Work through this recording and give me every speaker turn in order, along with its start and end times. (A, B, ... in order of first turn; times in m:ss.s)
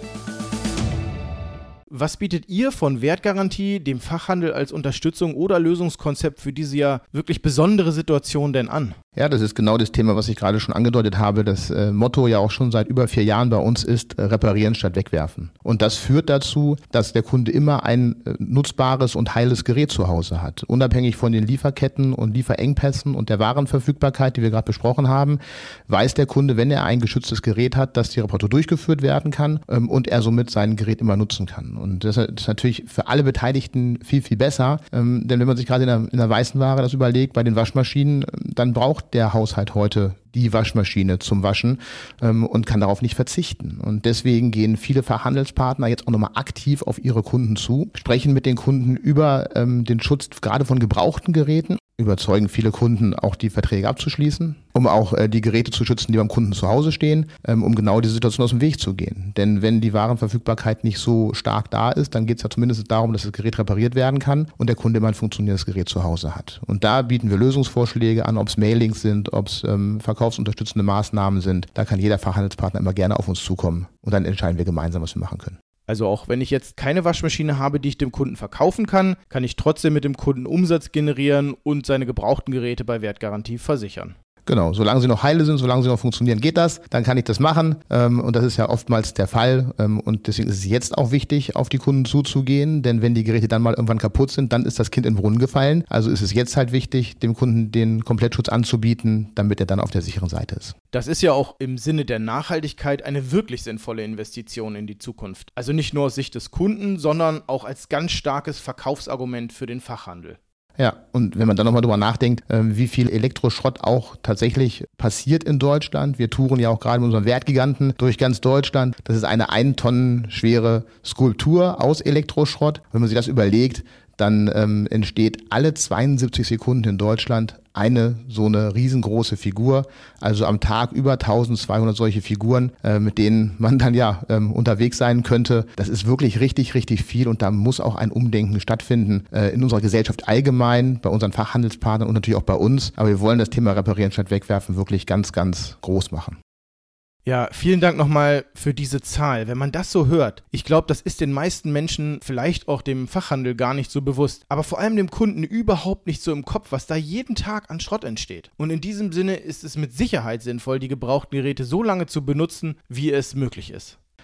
0:01.9-0:09.0 A
0:09.2-1:15.6 B
1:15.9-1:24.1 A
1:24.4-1:40.7 B
1:40.9-1:50.4 A
1:50.8-2:26.4 B
2:27.2-2:44.0 A